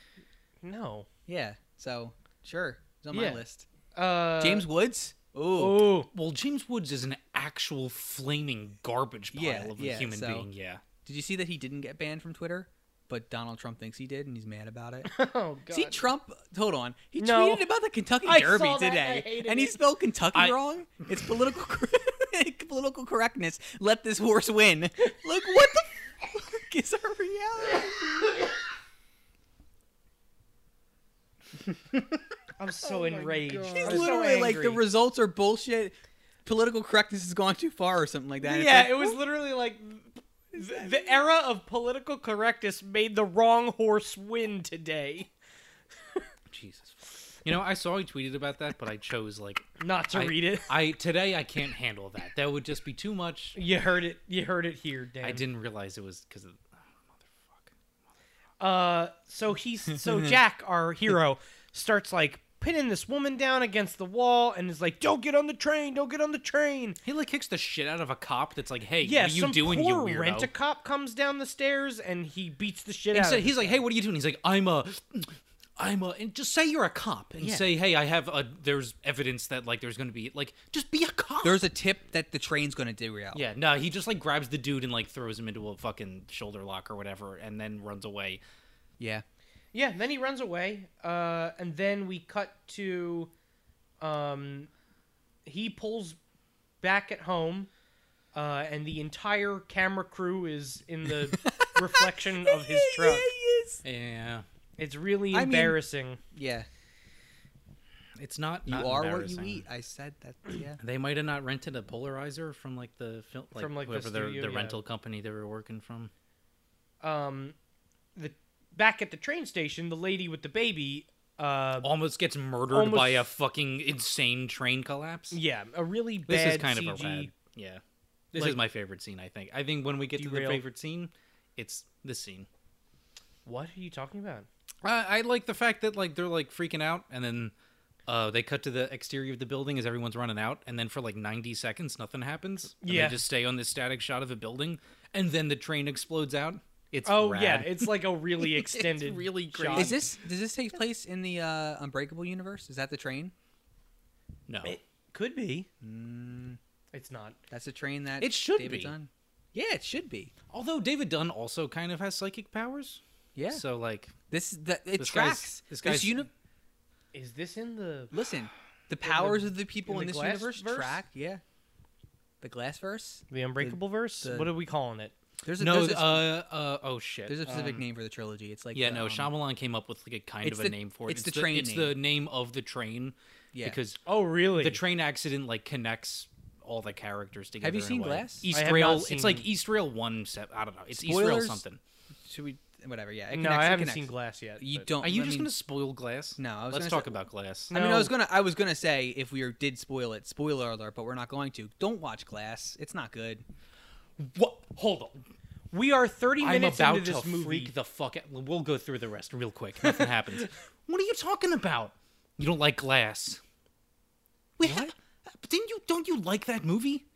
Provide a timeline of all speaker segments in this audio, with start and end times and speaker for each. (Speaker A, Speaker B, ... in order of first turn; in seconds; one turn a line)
Speaker A: 0.6-1.1
Speaker B: 1.3-3.7
Speaker A: 3.1-3.4
Speaker A: 4.0-4.7
Speaker B: 4.4-5.9
Speaker A: 5.6-6.1
Speaker C: 6.1-10.8
Speaker B: 9.3-10.5
Speaker B: 11.0-15.1
Speaker A: 15.1-16.1
Speaker B: 15.7-28.0
Speaker A: 17.2-17.7
Speaker A: 18.2-19.8
Speaker A: 32.6-34.8
Speaker B: 33.0-39.2
Speaker C: 33.8-34.1
Speaker A: 38.4-45.3
Speaker C: 46.5-53.6
Speaker A: 49.8-50.7
Speaker A: 53.6-55.4
Speaker C: 55.2-57.7
Speaker A: 58.6-67.0
Speaker C: 67.0-70.5
Speaker A: 69.0-73.8
Speaker C: 73.1-81.6
Speaker B: 77.4-77.7
Speaker B: 81.4-83.4
Speaker C: 83.3-88.4
Speaker B: 89.0-89.2
Speaker A: 89.7-93.3
Speaker A: 94.0-94.7
Speaker A: 95.5-96.2
Speaker A: 96.8-97.7
Speaker A: 98.3-103.3
Speaker B: 101.3-103.8
Speaker C: 103.8-104.5
Speaker A: 104.8-106.2
Speaker B: 105.3-105.8
Speaker B: 106.3-106.7
Speaker C: 108.2-109.7
Speaker B: 108.7-110.8
Speaker C: 110.8-116.1
Speaker A: 113.6-114.8
Speaker A: 117.0-117.5
Speaker A: 118.2-121.9
Speaker C: 121.8-125.4
Speaker A: 122.7-123.3
Speaker A: 125.3-127.3
Speaker C: 126.3-127.8
Speaker C: 128.3-132.5
Speaker A: 130.2-130.6
Speaker A: 133.4-134.5
Speaker C: 134.8-137.5
Speaker C: 138.1-150.0
Speaker A: 142.8-143.2
Speaker A: 147.1-150.1
Speaker B: 149.7-153.3
Speaker C: 154.5-154.8
Speaker A: 154.6-155.7
Speaker B: 155.8-156.6
Speaker A: 156.9-157.4
Speaker B: 157.5-160.3
Speaker C: 158.2-158.9
Speaker C: 160.5-164.1
Speaker B: 163.3-163.6
Speaker B: 164.3-166.3
Speaker C: 165.0-166.2
Speaker A: 167.1-168.1
Speaker B: 168.1-171.4
Speaker A: 169.0-171.0
Speaker B: 172.4-174.5
Speaker A: 173.3-175.1
Speaker B: 175.4-176.3
Speaker C: 175.6-177.8
Speaker B: 177.3-179.3
Speaker C: 178.7-184.0
Speaker B: 180.4-181.9
Speaker B: 183.5-183.8
Speaker A: 184.1-184.8
Speaker C: 184.6-191.8
Speaker B: 187.6-188.5
Speaker A: 188.5-189.5
Speaker B: 190.9-191.6
Speaker B: 192.2-195.5
Speaker A: 193.3-194.9
Speaker C: 195.0-197.7
Speaker B: 196.4-197.2
Speaker B: 197.7-203.4
Speaker A: 197.7-198.1
Speaker C: 204.2-205.2
Speaker A: 205.7-207.7
Speaker C: 206.4-213.4
Speaker C: 214.6-217.1
Speaker B: 214.6-214.9